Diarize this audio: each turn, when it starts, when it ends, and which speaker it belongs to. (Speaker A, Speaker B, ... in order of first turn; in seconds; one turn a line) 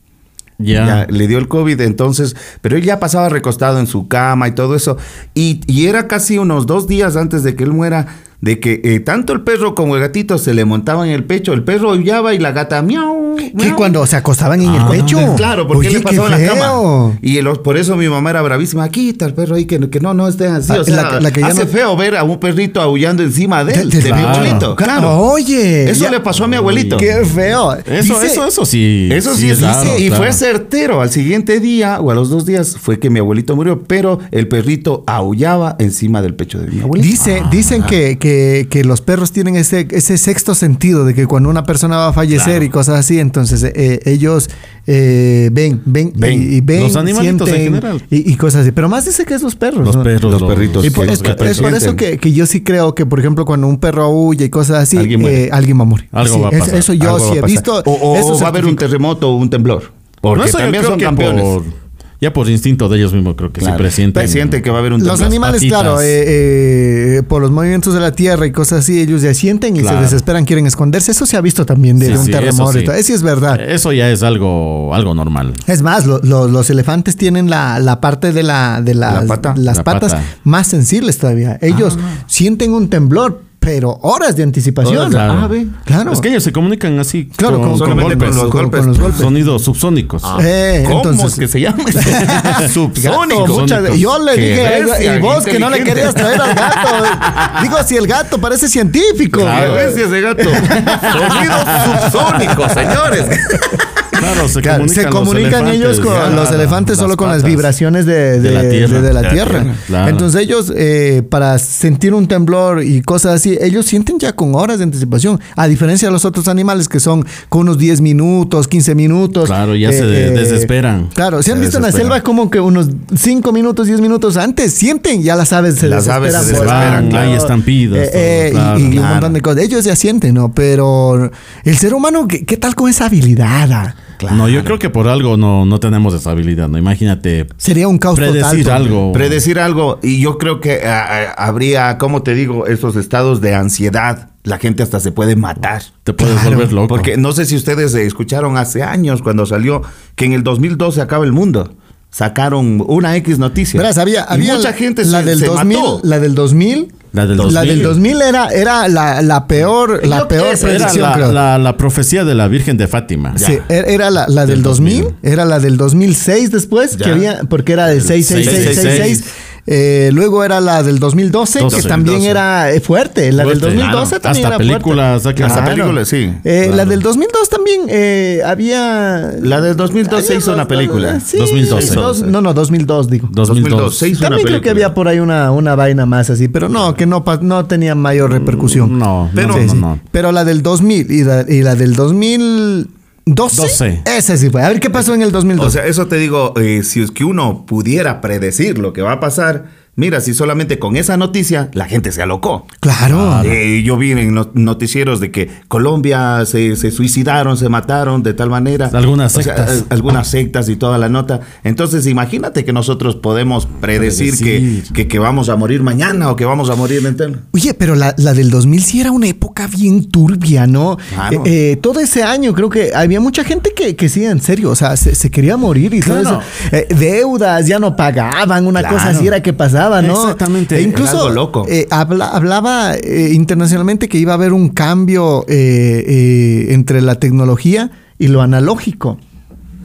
Speaker A: 0.6-1.0
Speaker B: 0.7-14.0
Speaker C: 13.5-17.2
Speaker B: 14.6-25.2
Speaker A: 14.6-15.4
Speaker C: 20.7-21.7
Speaker C: 23.7-26.1
Speaker A: 24.0-24.7
Speaker B: 25.8-27.1
Speaker A: 26.5-27.1
Speaker C: 26.9-28.4
Speaker A: 27.9-30.4
Speaker B: 29.1-37.4
Speaker C: 29.5-30.0
Speaker C: 37.0-50.1
Speaker A: 37.2-37.8
Speaker A: 42.3-42.6
Speaker B: 46.1-46.5
Speaker A: 46.7-48.0
Speaker A: 49.8-51.8
Speaker B: 50.2-52.0
Speaker C: 50.8-58.8
Speaker B: 54.9-55.5
Speaker A: 56.1-56.9
Speaker B: 57.0-61.5
Speaker A: 60.3-66.2
Speaker B: 63.6-65.4
Speaker C: 65.0-73.6
Speaker A: 69.8-70.2
Speaker A: 72.0-72.9
Speaker A: 73.5-75.6
Speaker C: 75.7-85.2
Speaker B: 79.0-79.6
Speaker A: 79.7-80.3
Speaker B: 84.8-85.7
Speaker A: 85.0-85.5
Speaker C: 85.8-86.2
Speaker A: 86.1-90.4
Speaker C: 87.4-89.3
Speaker B: 87.7-89.3
Speaker B: 90.2-96.8
Speaker C: 90.3-91.4
Speaker C: 92.0-99.9
Speaker A: 92.1-94.1
Speaker A: 99.3-100.0
Speaker B: 99.4-103.9
Speaker A: 100.5-102.9
Speaker C: 100.7-102.1
Speaker A: 104.1-107.7
Speaker C: 104.2-134.0
Speaker B: 106.1-106.4
Speaker A: 108.4-110.3
Speaker B: 109.4-109.8
Speaker A: 119.4-122.1
Speaker B: 125.8-127.5
Speaker A: 126.4-129.1
Speaker B: 128.8-129.4
Speaker B: 134.2-134.8
Speaker A: 134.3-137.6
Speaker C: 137.6-139.0
Speaker A: 138.1-139.4
Speaker B: 139.1-145.9
Speaker A: 146.0-147.1
Speaker C: 146.2-146.7
Speaker B: 146.8-156.1
Speaker C: 153.7-161.4
Speaker A: 157.1-158.0
Speaker B: 157.4-157.9
Speaker B: 160.0-161.2
Speaker A: 160.6-163.4
Speaker B: 163.3-163.7
Speaker C: 163.3-183.3
Speaker A: 164.4-165.1
Speaker B: 166.9-167.3
Speaker A: 168.0-169.2
Speaker B: 168.4-169.2
Speaker A: 171.6-172.2
Speaker B: 171.7-172.4
Speaker A: 173.4-175.7
Speaker B: 173.7-174.1
Speaker B: 175.3-176.4
Speaker A: 176.6-177.0
Speaker B: 179.4-182.3
Speaker A: 181.3-182.1
Speaker A: 183.3-184.1
Speaker B: 183.4-184.9
Speaker C: 184.2-195.8
Speaker A: 188.3-190.0
Speaker A: 193.5-194.0
Speaker B: 195.5-202.7
Speaker C: 202.8-203.5
Speaker A: 203.1-203.6
Speaker B: 203.4-217.4
Speaker A: 208.9-209.8
Speaker A: 213.9-214.9
Speaker C: 217.5-239.2
Speaker B: 221.1-221.5
Speaker A: 226.0-226.5
Speaker B: 228.8-229.3
Speaker A: 230.0-231.0
Speaker B: 230.8-231.7